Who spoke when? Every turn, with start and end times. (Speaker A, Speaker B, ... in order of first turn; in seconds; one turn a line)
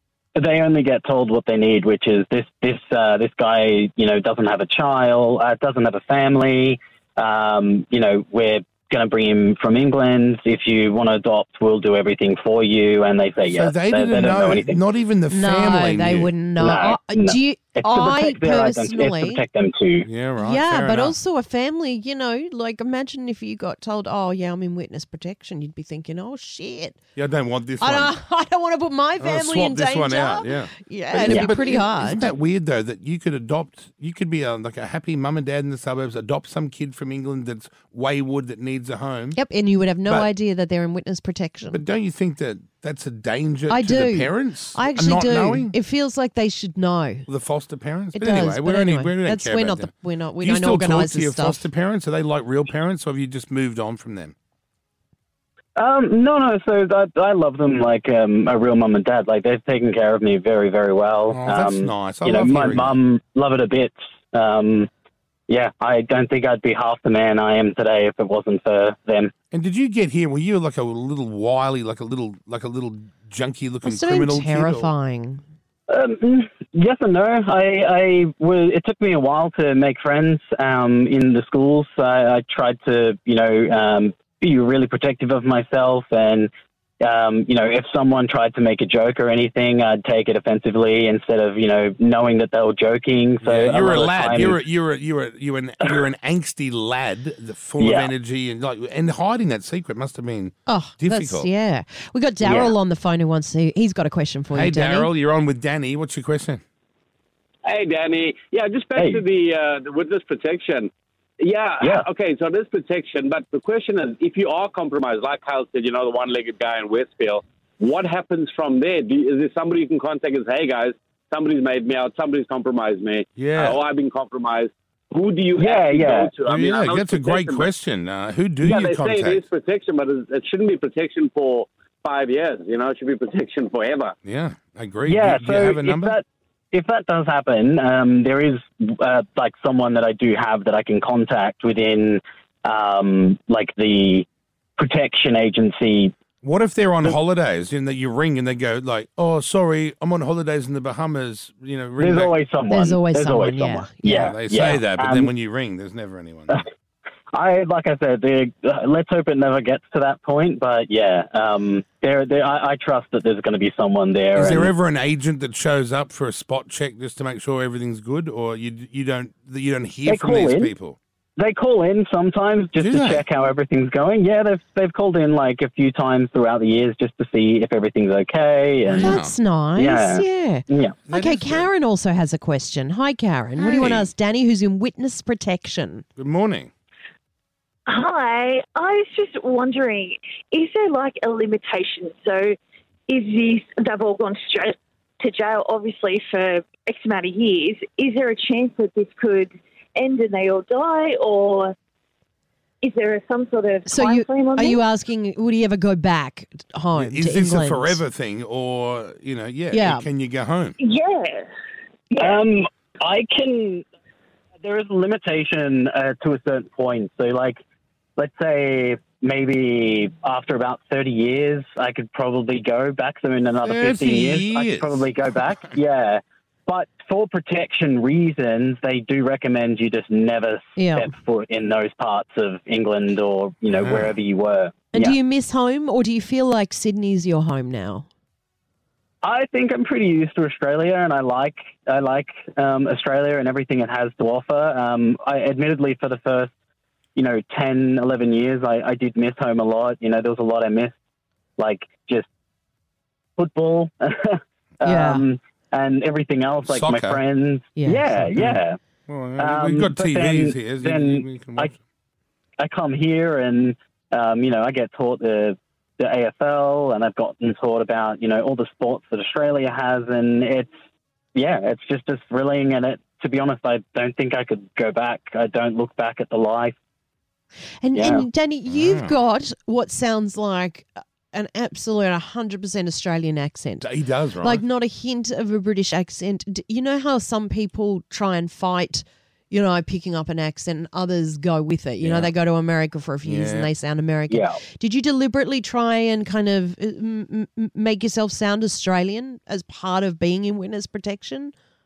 Speaker A: 0.3-14.8
Speaker B: 13.4-16.3
Speaker C: 15.3-19.4
Speaker A: 16.6-20.1
Speaker B: 20.0-21.1
Speaker C: 20.4-27.0
Speaker B: 27.1-28.1
Speaker C: 27.8-32.3
Speaker B: 29.2-39.4
Speaker C: 39.3-41.8
Speaker B: 41.7-45.7
Speaker C: 43.7-47.3
Speaker B: 47.3-54.3
Speaker C: 48.1-51.6
Speaker A: 55.8-64.9
Speaker B: 61.3-63.0
Speaker A: 65.5-69.3
Speaker B: 69.5-74.9
Speaker C: 73.8-75.4
Speaker A: 75.9-86.5
Speaker A: 87.0-94.6
Speaker B: 93.4-101.5
Speaker A: 97.8-98.1
Speaker C: 100.7-105.1
Speaker A: 102.4-102.7
Speaker B: 104.5-106.6
Speaker D: 107.6-127.7
Speaker A: 109.0-109.2
Speaker B: 123.3-123.8
Speaker A: 125.6-126.3
Speaker B: 126.5-129.4
Speaker D: 128.6-134.1
Speaker B: 134.2-136.2
Speaker A: 135.1-144.2
Speaker A: 144.8-146.1
Speaker B: 146.4-152.3
Speaker A: 152.0-155.3
Speaker C: 152.7-154.3
Speaker B: 154.1-156.6
Speaker A: 157.3-164.7
Speaker B: 164.3-171.0
Speaker A: 170.1-170.7
Speaker A: 171.4-179.2
Speaker B: 172.8-173.2
Speaker B: 178.8-179.3
Speaker C: 179.0-186.0
Speaker A: 179.8-181.0
Speaker B: 181.1-181.7
Speaker B: 183.7-184.1
Speaker B: 186.2-186.7
Speaker E: 187.9-192.6
Speaker E: 193.1-201.7
Speaker E: 202.8-204.8
Speaker C: 203.8-208.0
Speaker B: 206.9-210.8
Speaker C: 209.7-210.1
Speaker E: 210.8-211.5
Speaker A: 212.2-213.8
Speaker A: 214.6-217.6
Speaker A: 218.2-235.2
Speaker B: 223.6-225.7
Speaker C: 230.8-231.1
Speaker B: 233.7-234.1
Speaker C: 234.9-238.1
Speaker A: 239.2-246.5
Speaker A: 247.2-250.9
Speaker A: 251.6-252.3
Speaker A: 253.4-258.8
Speaker C: 254.8-255.2
Speaker B: 256.6-257.2
Speaker C: 257.8-258.5
Speaker B: 259.1-261.8
Speaker A: 259.4-261.7
Speaker A: 262.6-270.7
Speaker A: 271.3-276.7
Speaker C: 277.8-283.9
Speaker A: 277.9-278.2
Speaker B: 278.6-279.1
Speaker B: 283.8-284.6
Speaker C: 284.4-301.5
Speaker B: 292.0-292.3
Speaker B: 293.2-293.7
Speaker A: 294.3-294.6